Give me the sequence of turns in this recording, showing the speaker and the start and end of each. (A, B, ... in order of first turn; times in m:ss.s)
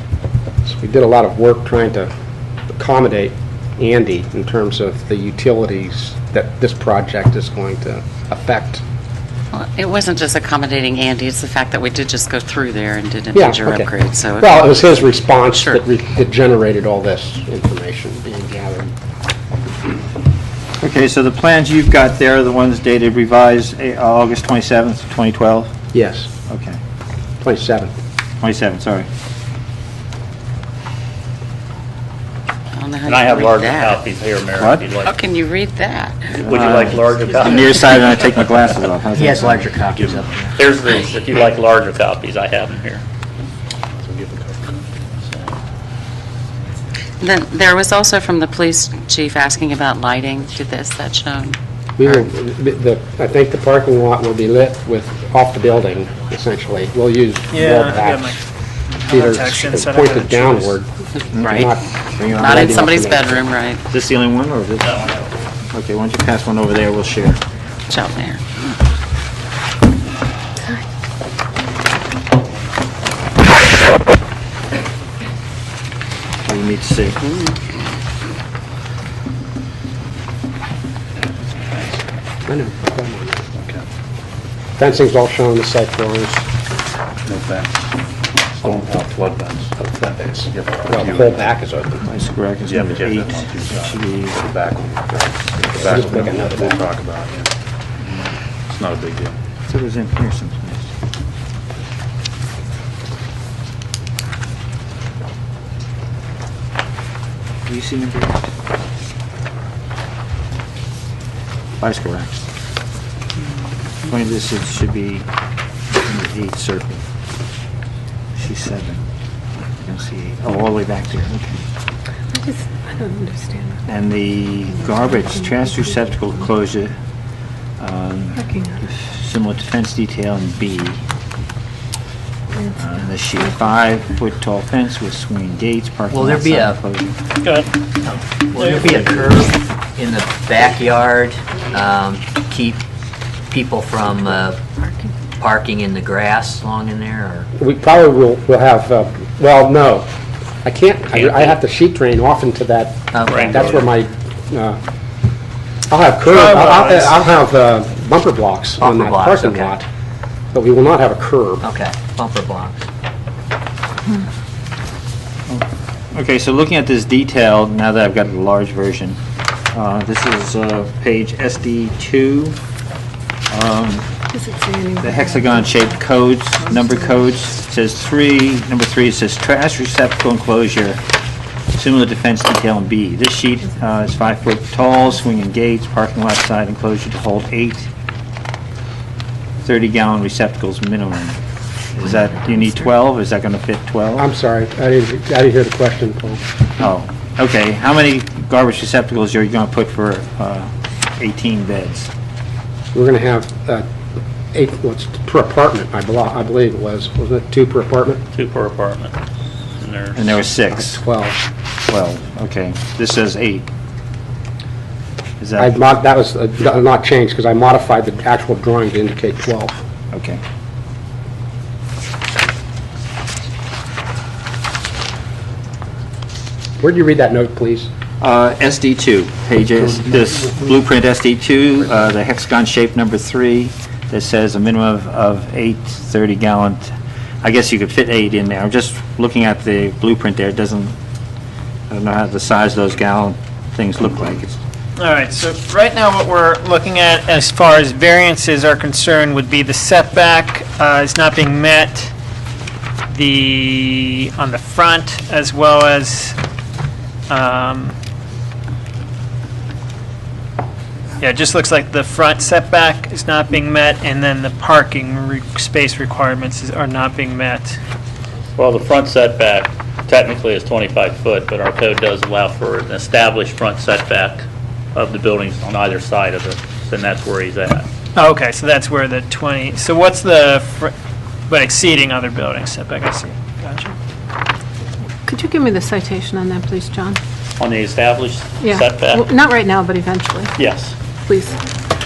0:00.7-0:02.1 A
0:02.7-0:08.8 A
0:09.5-0:14.8 B
0:13.3-0:18.9 A
0:15.5-0:15.8 B
0:20.8-0:25.8 C
0:25.9-0:26.3 A
0:26.5-0:26.8 C
0:27.4-0:27.9 A
0:28.4-0:29.1 C
0:32.8-0:34.0 B
0:33.1-0:35.1 D
0:34.6-0:34.8 C
0:35.0-0:36.5 B
0:36.4-0:39.7 C
0:36.4-0:38.5 D
0:39.1-0:40.6 E
0:39.4-0:40.3 F
0:40.6-0:43.0 D
0:40.8-0:41.1 B
0:43.9-0:45.0 F
0:47.2-0:51.6 B
0:52.0-0:58.4 A
0:57.5-1:00.8 G
0:59.1-1:03.4 A
1:01.3-1:02.8 C
1:01.3-1:01.7 B
1:02.3-1:03.9 B
1:03.9-1:05.0 C
1:04.8-1:05.3 D
1:05.7-1:07.4 C
1:07.9-1:08.7 B
1:16.4-1:17.2 C
1:17.2-1:17.6 B
1:22.5-1:23.5 A
1:23.6-1:23.8 F
1:24.8-1:26.5 A
1:27.3-1:27.9 F
1:28.5-1:31.6 F
1:30.9-1:32.0 A
1:32.1-1:34.4 C
1:32.6-1:37.5 F
1:35.7-1:36.8 A
1:38.7-1:39.4 F
1:39.7-1:40.9 C
1:47.7-1:48.5 C
1:51.8-1:52.4 C
1:54.0-1:55.3 C
1:56.0-1:57.0 C
1:58.4-1:59.0 C
1:59.8-2:01.6 C
2:02.3-2:03.8 H
2:03.9-2:07.0 C
2:04.9-2:06.1 H
2:07.8-2:11.0 C
2:08.4-2:08.8 H
2:12.8-2:17.2 C
2:16.1-2:16.8 E
2:17.4-2:17.7 G
2:18.0-2:22.8 E
2:18.6-2:19.4 G
2:23.5-2:24.6 E
2:25.4-2:27.5 E
2:27.6-2:30.1 A
2:30.6-2:34.8 A
2:31.1-2:31.6 D
2:33.1-2:33.6 E
2:33.3-2:33.7 D
2:35.9-2:39.8 A
2:36.3-2:37.2 G
2:38.8-2:39.8 E
2:40.5-2:41.6 A
2:41.6-2:42.8 E
2:45.5-2:49.2 C
2:49.7-2:52.6 C
2:53.5-2:54.1 C
2:54.3-2:56.0 H
2:55.0-3:01.0 C
2:56.6-2:57.2 H
3:01.7-3:07.9 C
3:09.6-3:11.4 C
3:11.9-3:14.3 C
3:14.2-3:16.4 A
3:16.8-3:22.1 C
3:22.9-3:23.9 A
3:24.5-3:28.2 A
3:28.3-3:29.2 D
3:29.8-3:30.2 D
3:30.2-3:31.0 C
3:30.7-3:31.4 A
3:31.9-3:33.7 C
3:35.4-3:35.8 C
3:35.6-3:39.8 A
3:40.1-3:40.4 C
3:46.8-3:47.9 A
3:48.2-4:00.9 C
4:01.9-4:04.6 C
4:05.0-4:12.1 G
4:13.1-4:16.4 G
4:17.3-4:18.0 G
4:21.2-4:27.8 G
4:28.6-4:37.9 D
4:38.2-4:40.9 G
4:41.5-4:44.0 G
4:45.3-4:47.2 H
4:47.6-4:49.3 D
4:48.6-4:50.6 H
4:50.6-4:51.0 D
4:51.2-4:51.6 H